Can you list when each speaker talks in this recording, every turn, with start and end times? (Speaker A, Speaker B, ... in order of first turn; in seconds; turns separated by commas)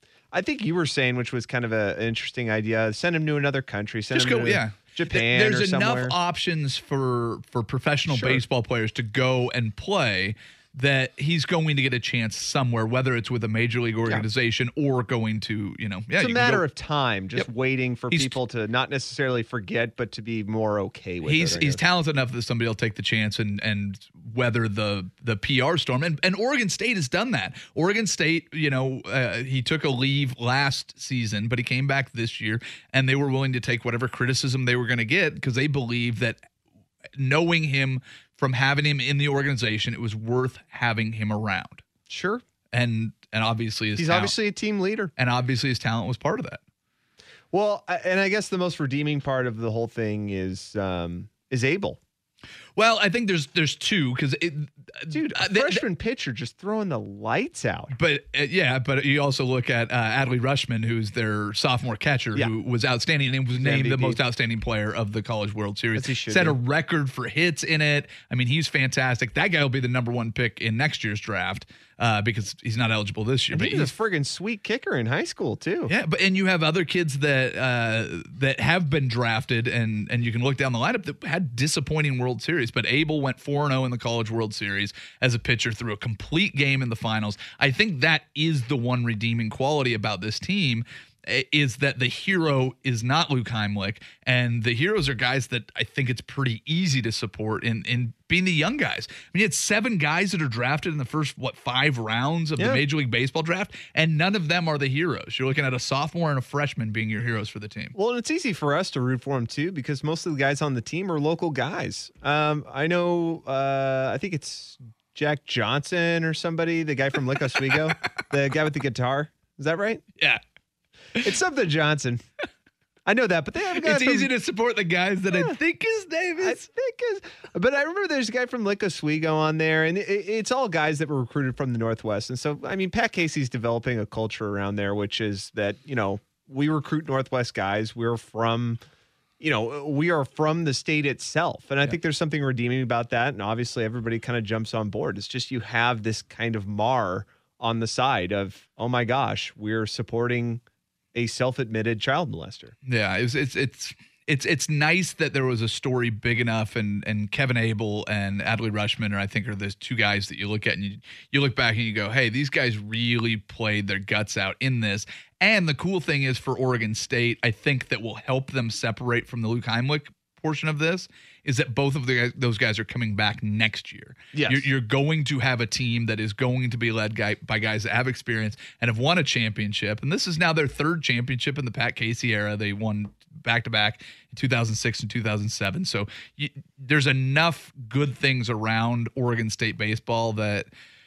Speaker A: 0.3-6.2, Speaker B: 4.1-16.6, Speaker A: 8.1-8.4, Speaker A: 16.2-21.8, Speaker B: 18.1-18.4, Speaker B: 21.2-36.4, Speaker B: 37.2-41.8, Speaker A: 42.1-42.4, Speaker B: 42.7-44.3, Speaker A: 44.0-45.1, Speaker B: 45.2-46.6, Speaker A: 47.5-52.0, Speaker B: 52.8-55.8, Speaker A: 55.1-57.9, Speaker B: 57.9-73.9, Speaker A: 63.6-64.2, Speaker A: 66.0-66.6, Speaker A: 73.5-75.9, Speaker B: 75.9-108.0, Speaker A: 108.0-120.0, Speaker A: 121.2-122.2, Speaker A: 123.1-124.3, Speaker B: 123.7-126.7, Speaker A: 125.3-125.6, Speaker A: 126.4-138.8, Speaker A: 139.4-150.6, Speaker A: 151.1-152.7, Speaker B: 152.9-190.7, Speaker A: 174.3-174.7